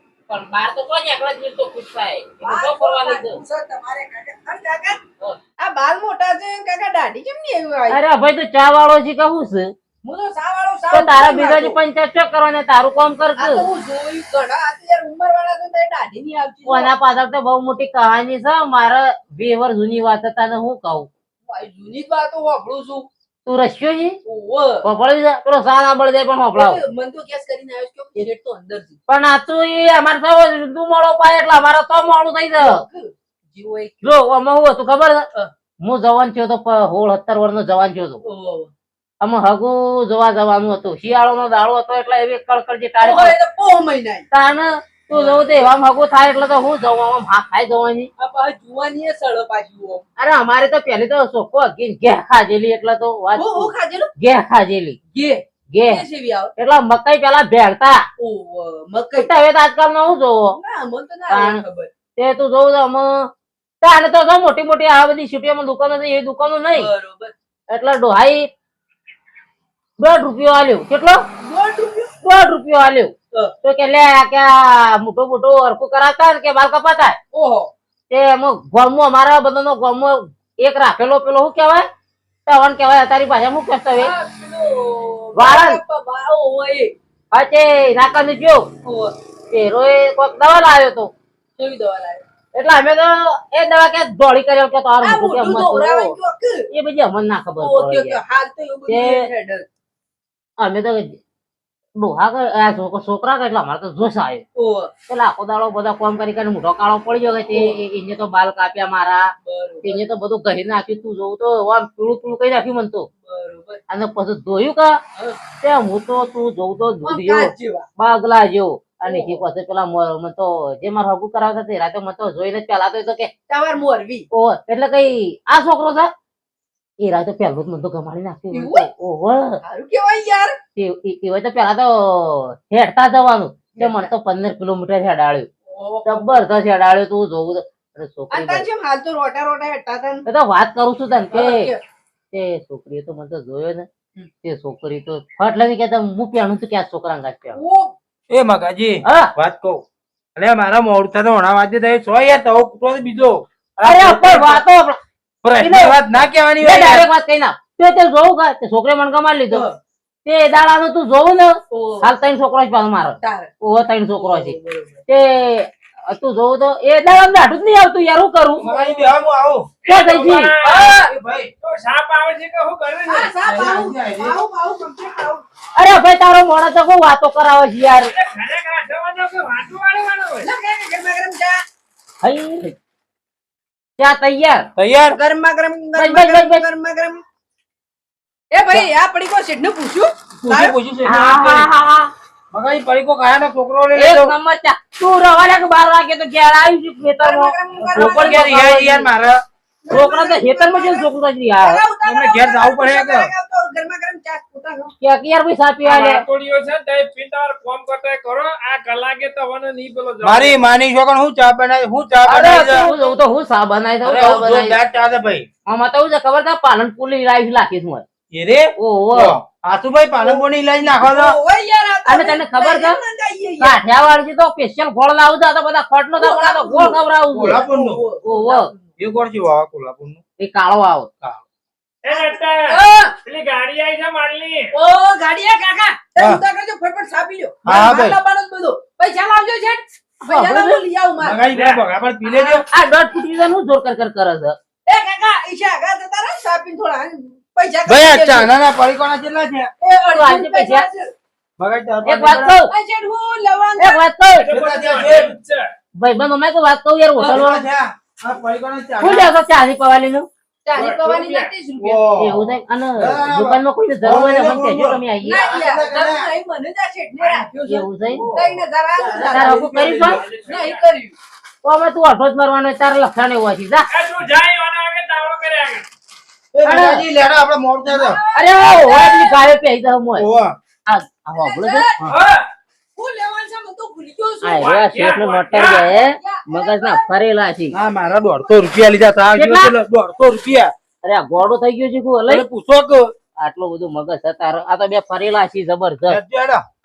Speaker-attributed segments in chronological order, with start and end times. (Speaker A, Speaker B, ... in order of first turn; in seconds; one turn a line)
Speaker A: 0.3-3.4
Speaker B: 2.4-5.0
Speaker B: 5.6-8.0
Speaker A: 7.9-9.7
Speaker B: 10.0-11.8
Speaker A: 10.9-13.7
Speaker B: 13.4-16.9
Speaker A: 16.6-21.1
Speaker B: 21.5-23.1
Speaker A: 23.4-24.2
Speaker B: 24.2-24.9
Speaker A: 24.8-26.8
Speaker B: 26.5-29.0
Speaker A: 29.1-32.8
Speaker B: 32.5-34.0
Speaker A: 34.0-35.3
Speaker A: 35.8-38.2
Speaker B: 38.2-38.7
Speaker A: 39.2-43.3
Speaker B: 43.0-44.2
Speaker A: 44.3-48.1
Speaker B: 45.1-45.7
Speaker B: 48.2-50.0
Speaker A: 50.2-55.0
Speaker B: 53.3-54.1
Speaker B: 55.1-56.5
Speaker A: 55.7-56.0
Speaker A: 56.6-58.0
Speaker B: 58.2-59.3
Speaker A: 59.2-60.6
Speaker B: 60.5-61.9
Speaker A: 61.3-61.6
Speaker A: 62.1-63.3
Speaker A: 63.8-66.9
Speaker B: 66.7-67.3
Speaker A: 67.7-68.5
Speaker A: 70.0-71.2
Speaker B: 71.4-72.1
Speaker A: 72.2-77.2
Speaker B: 77.3-77.7
Speaker A: 78.1-81.8
Speaker A: 82.5-84.1
Speaker B: 83.9-86.9
Speaker A: 85.3-85.8
Speaker A: 87.3-88.7
Speaker B: 88.8-89.1
Speaker A: 89.5-91.1
Speaker B: 91.5-92.2
Speaker A: 92.5-96.1
Speaker B: 95.0-96.7
Speaker A: 96.7-98.2
Speaker B: 97.6-99.7
Speaker A: 98.9-99.2
Speaker A: 100.6-101.2
Speaker A: 102.0-104.4
Speaker B: 104.5-104.9
Speaker A: 105.1-109.3
Speaker B: 107.5-107.8
Speaker B: 109.4-110.0
Speaker A: 109.8-113.1
Speaker B: 113.2-113.8
Speaker A: 113.9-115.0
Speaker B: 115.2-115.4
Speaker A: 115.6-123.3
Speaker B: 117.0-117.9
Speaker B: 119.0-119.4
Speaker B: 123.5-124.3
Speaker A: 124.3-126.1
Speaker A: 127.0-129.6
Speaker B: 128.5-128.9
Speaker B: 129.6-130.6
Speaker A: 130.8-135.5
Speaker B: 133.8-134.1
Speaker B: 135.7-136.3
Speaker A: 136.1-138.6
Speaker B: 138.3-140.2
Speaker A: 140.3-141.7
Speaker B: 141.3-141.8
Speaker A: 142.3-143.9
Speaker A: 144.4-147.6
Speaker B: 147.5-147.9
Speaker C: 148.3-149.8
Speaker A: 149.1-149.3
Speaker C: 150.3-154.6
Speaker A: 153.8-155.0
Speaker C: 155.4-157.1
Speaker A: 155.6-156.0
Speaker A: 156.6-159.7
Speaker B: 159.5-159.8
Speaker A: 160.2-164.6
Speaker B: 161.7-162.1
Speaker B: 163.2-163.5
Speaker B: 164.1-165.0
Speaker A: 165.1-168.7
Speaker C: 168.6-169.7
Speaker D: 169.8-171.1
Speaker A: 169.8-171.1
Speaker C: 170.8-171.5
Speaker D: 171.6-173.3
Speaker B: 173.1-175.4
Speaker C: 173.4-174.4
Speaker A: 175.8-178.1
Speaker D: 178.0-180.5
Speaker B: 180.4-181.6
Speaker A: 182.2-182.7
Speaker A: 184.0-184.7
Speaker C: 184.8-185.2
Speaker B: 185.1-187.2
Speaker A: 185.9-186.6
Speaker B: 188.5-190.8
Speaker C: 190.4-191.7
Speaker A: 191.0-192.1
Speaker C: 192.5-194.3
Speaker A: 193.9-199.1
Speaker B: 197.2-198.8
Speaker C: 197.9-199.4
Speaker B: 199.8-204.9
Speaker A: 199.9-201.8
Speaker C: 202.0-203.3
Speaker A: 205.0-206.2
Speaker D: 205.8-210.6
Speaker C: 210.2-212.9
Speaker A: 212.2-214.8
Speaker B: 212.3-213.2
Speaker C: 214.0-215.5
Speaker A: 215.7-218.0
Speaker C: 218.3-221.3
Speaker A: 218.8-219.4
Speaker B: 220.2-223.8
Speaker A: 222.1-223.0
Speaker A: 223.6-227.6
Speaker B: 226.2-227.0
Speaker C: 227.3-228.0
Speaker B: 227.5-228.9
Speaker A: 228.2-228.7
Speaker C: 229.0-230.2
Speaker A: 230.4-231.1
Speaker D: 232.0-234.7
Speaker B: 232.1-233.1
Speaker B: 234.7-241.4
Speaker C: 237.7-238.2
Speaker A: 240.3-240.8
Speaker C: 241.2-242.6
Speaker D: 241.5-241.8
Speaker B: 242.2-242.7
Speaker A: 242.7-244.6
Speaker B: 244.8-248.5
Speaker C: 247.8-249.7
Speaker B: 249.8-251.1
Speaker A: 250.1-250.8
Speaker C: 251.6-252.6
Speaker A: 252.0-252.7
Speaker B: 252.7-254.0
Speaker A: 253.8-254.5
Speaker D: 254.4-255.7
Speaker C: 254.5-255.3
Speaker A: 255.9-257.6
Speaker C: 257.2-259.3
Speaker A: 259.0-260.3
Speaker B: 260.6-262.1
Speaker D: 260.7-261.1
Speaker C: 261.1-266.3
Speaker A: 262.2-265.5
Speaker B: 265.2-269.7
Speaker A: 267.7-268.3
Speaker C: 268.1-270.2
Speaker A: 269.3-270.2
Speaker D: 269.9-270.9
Speaker B: 270.4-271.1
Speaker A: 271.6-273.9
Speaker D: 273.9-275.9
Speaker C: 276.5-278.2
Speaker A: 276.6-277.0
Speaker B: 277.8-279.4
Speaker A: 278.3-280.2
Speaker D: 278.8-279.2
Speaker C: 280.1-280.6
Speaker A: 280.9-281.9
Speaker B: 281.4-282.2
Speaker D: 282.1-282.4
Speaker B: 282.9-287.0
Speaker A: 284.4-287.7
Speaker D: 284.6-285.9
Speaker C: 287.7-290.7
Speaker A: 289.3-289.7
Speaker A: 291.0-292.4
Speaker C: 292.3-293.1
Speaker A: 293.4-296.2
Speaker C: 296.1-296.6